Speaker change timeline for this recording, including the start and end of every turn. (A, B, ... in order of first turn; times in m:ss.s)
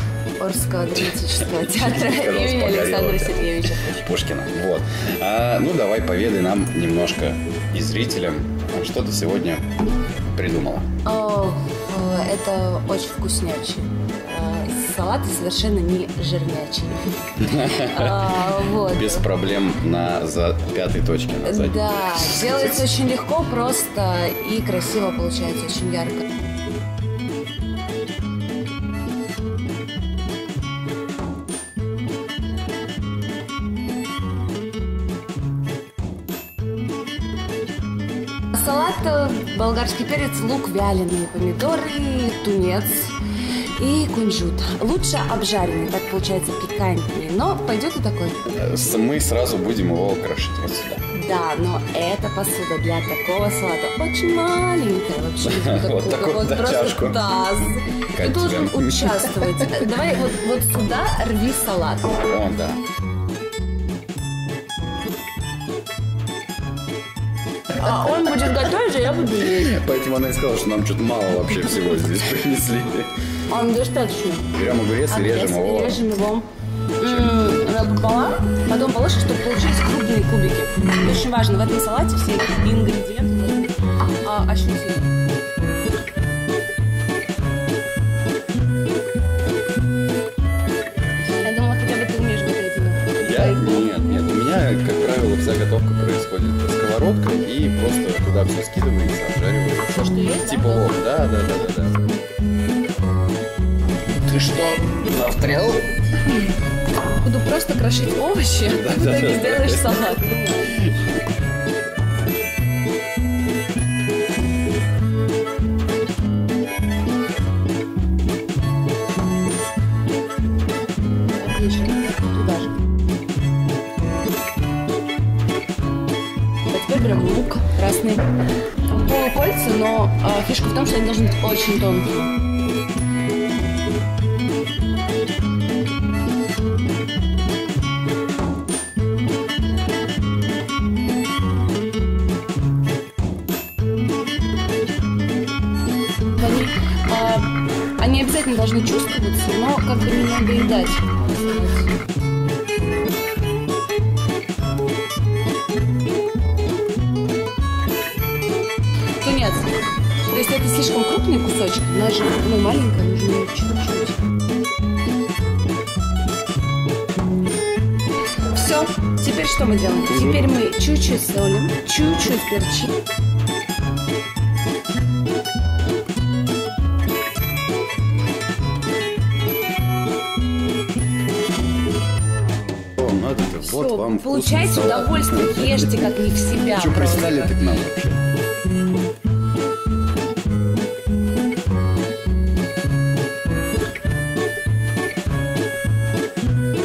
0:00.4-0:04.0 A
0:01.0-0:09.8 B
0:10.3-0:10.9 B
0:11.0-0:19.3 A
0:17.4-0:22.8 B
0:21.4-0:26.2 A
0:38.5-0:43.2 A
0:43.8-0:48.4 A
0:48.4-0:51.0 B
0:51.1-1:02.2 A
0:55.4-0:57.2 B
0:58.1-0:59.9 B
1:02.2-1:02.8 B
1:07.7-1:09.8 A
1:09.4-1:13.1 B
1:13.5-1:14.5 A
1:14.5-1:16.0 B
1:15.1-1:16.4 A
1:17.0-1:25.1 A
1:17.0-1:17.9 B
1:31.4-1:34.2 A
1:33.2-1:42.0 B
1:39.9-1:40.9 A
1:44.2-1:45.9 B
1:47.2-1:50.8 A
1:48.6-1:51.0 B
2:01.3-2:02.8 A
2:06.7-2:08.3 A
2:08.9-2:12.3 A
2:26.3-2:31.9 A
2:39.2-2:44.2 A
2:48.5-2:52.9 A
2:50.1-2:50.5 B
3:03.0-3:08.2 B
3:03.6-3:07.6 A